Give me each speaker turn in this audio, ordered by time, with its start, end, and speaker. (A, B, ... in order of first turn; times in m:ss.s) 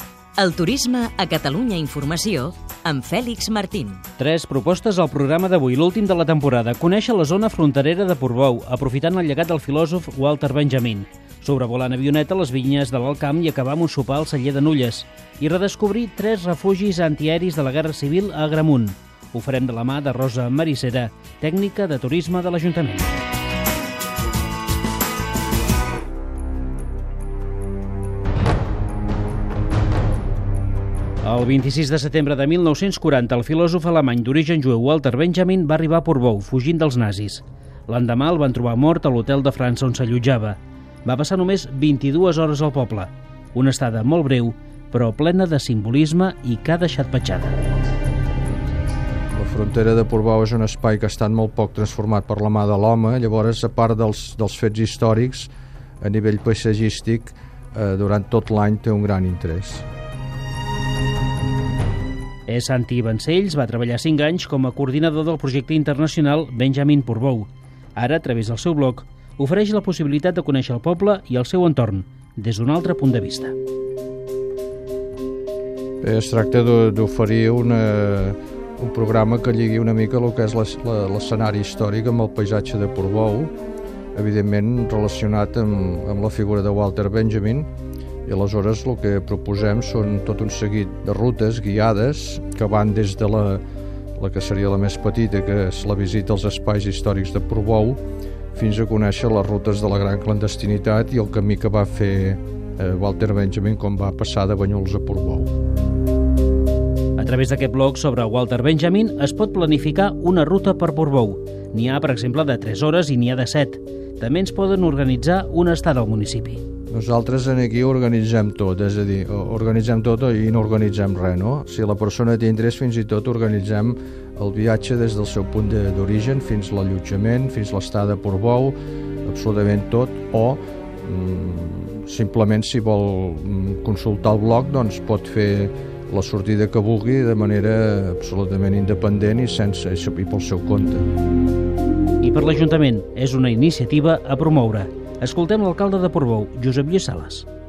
0:00.4-0:04.0 A
0:04.2-0:23.1 B
0:31.2-0:47.6 B
0:49.3-0:55.5 C
0:56.0-0:59.8 C
1:02.5-1:13.5 B
1:16.0-1:23.5 C
1:24.2-1:27.7 C
1:28.3-1:33.6 C
1:34.2-1:38.0 C
1:38.6-1:45.5 C
1:47.2-1:56.6 B
1:56.9-2:21.1 C
2:22.2-2:27.5 B